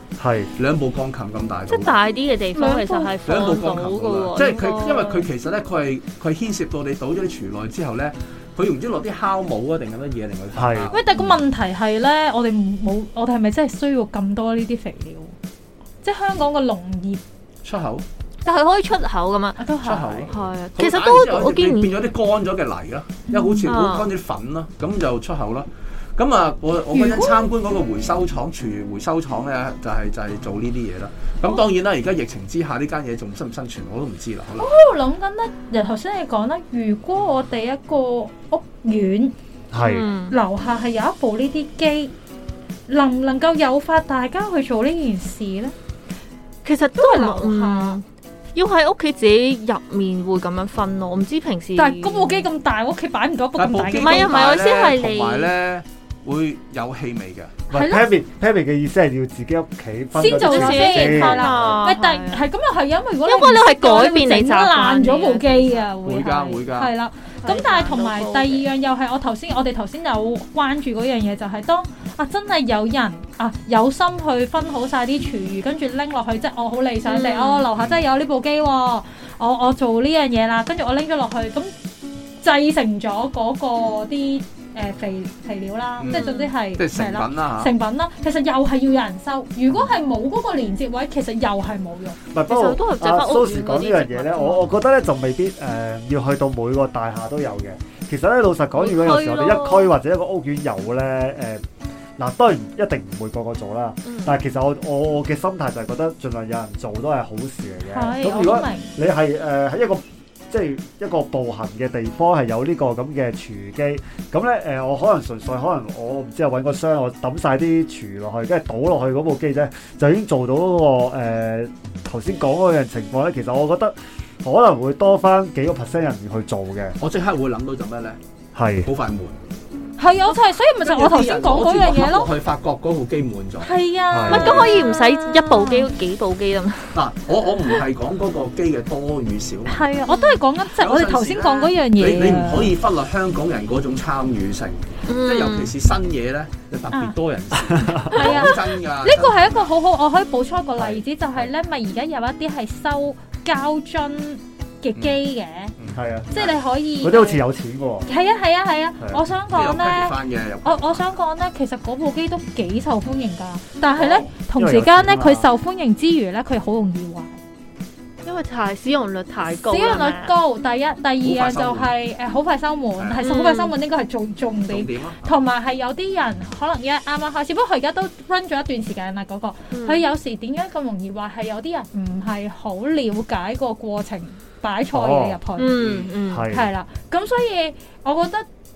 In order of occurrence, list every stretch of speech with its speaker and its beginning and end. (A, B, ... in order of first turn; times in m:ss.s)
0:00.2-0:00.5 A
0:00.6-0:02.0 B
0:01.7-0:05.3 C
0:02.6-0:03.2 D
0:03.2-0:11.3 B
0:10.5-0:10.9 A
0:10.9-0:15.4 D
0:16.0-0:17.2 D
0:17.6-0:18.0 B
0:18.4-0:19.6 C
0:19.6-0:20.3 D
0:19.8-0:34.7 B
0:20.3-0:21.9 C
0:23.3-0:23.7 D
0:23.6-0:24.1 C
0:26.9-0:27.4 D
0:34.6-0:39.4 D
0:39.7-0:40.1 A
0:39.8-0:40.4 C
0:40.3-0:42.1 D
0:42.9-0:45.7 D
0:46.6-0:52.5 C
0:47.0-0:48.0 D
0:51.8-0:54.4 D
0:53.6-0:57.5 B
0:53.9-0:55.5 C
0:57.7-1:01.5 A
0:57.7-0:58.1 D
1:00.2-1:21.7 D
1:00.2-1:02.5 C
1:03.2-1:05.9 C
1:06.0-1:06.9 B
1:07.4-1:08.7 C
1:17.1-1:17.7 C
1:17.8-1:18.0 B
1:22.4-1:32.2 D
1:26.0-1:27.7 B
1:26.1-1:26.5 C
1:32.3-1:41.6 A
1:32.5-1:34.8 C
1:38.8-1:39.9 C
1:42.2-2:07.0 A
1:44.0-1:44.4 C
1:47.9-1:48.9 D
2:07.0-2:08.2 B
2:08.6-2:08.9 A
2:08.8-2:09.4 B
2:10.0-2:12.3 D
2:10.8-2:13.7 B
2:13.6-2:15.9 D
2:14.1-2:14.6 A
2:14.3-2:14.9 B
2:14.3-2:17.0 C
2:16.9-2:19.9 B
2:19.7-2:22.8 D
2:20.1-2:20.4 C
2:20.8-2:29.6 B
2:25.1-2:25.7 C
2:27.9-2:28.3 A
2:28.1-2:35.7 D
2:35.8-2:36.5 B
2:35.9-2:36.4 A
2:36.3-2:37.4 D
2:37.0-2:38.1 A
2:38.1-2:47.4 D
2:39.5-2:41.0 B
2:44.0-2:44.3 B
2:44.6-2:45.5 A
2:48.2-2:50.3 C
2:49.4-3:05.8 D
2:51.2-2:51.9 B
2:53.0-2:53.2 B
2:53.2-2:53.7 C
2:54.7-2:55.3 B
2:59.7-3:00.0 C
3:04.9-3:05.4 A
3:05.6-3:06.5 C
3:05.7-3:06.1 B
3:06.3-3:06.7 A
3:06.5-3:08.5 D